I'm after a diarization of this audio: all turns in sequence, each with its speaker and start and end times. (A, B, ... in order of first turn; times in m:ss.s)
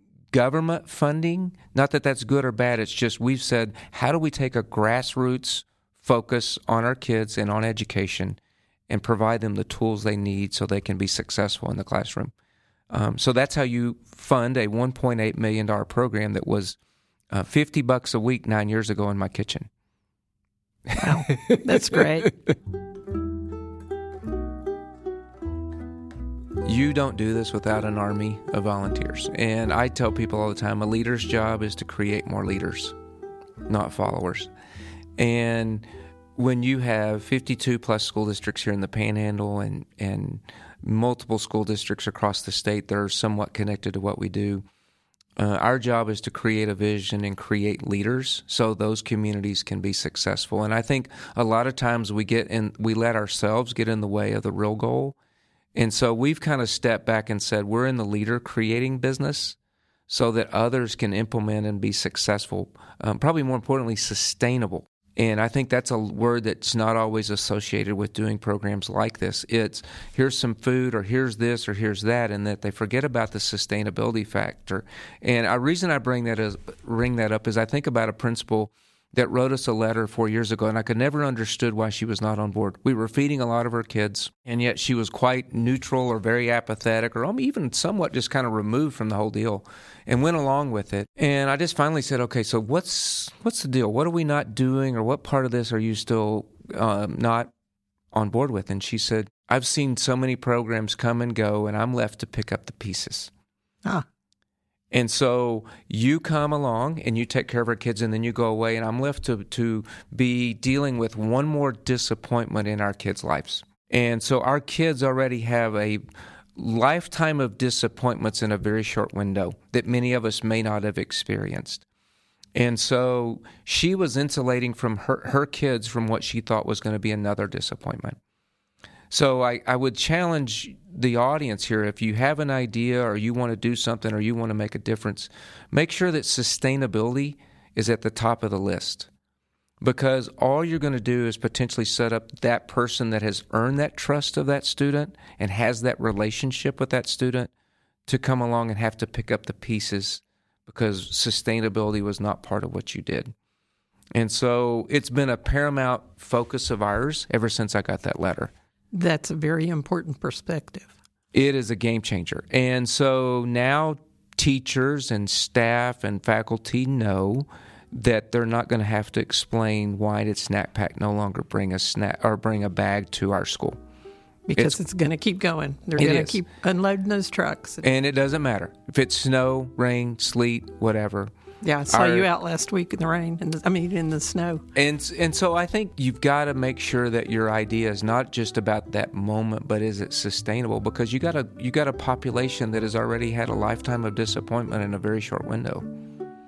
0:00.3-0:08.4 A
0:08.9-0:12.3 A
0:12.9-0:16.8 A
0:17.3-0:19.7 A
0:20.9-0:22.3 A
0:20.9-0:22.3 B
0:26.6-0:32.9 A
0:33.7-0:34.5 A
0:35.2-0:35.8 A
0:36.4-0:44.6 A
0:45.4-0:55.2 A
0:55.7-0:59.6 A
1:00.1-1:37.5 A
1:38.1-1:43.3 A
1:44.9-1:56.0 A
1:56.6-2:01.8 A
2:02.5-2:08.2 A
2:09.1-2:19.1 A
2:19.8-2:27.5 A
2:28.1-2:33.3 A
2:34.1-2:38.5 A
2:38.9-2:40.9 B
2:41.3-2:53.8 A
2:54.5-2:57.8 B
2:56.0-2:56.4 A
2:57.8-3:01.3 A
3:01.6-3:04.6 B
3:01.9-3:02.3 A
3:04.7-3:15.9 A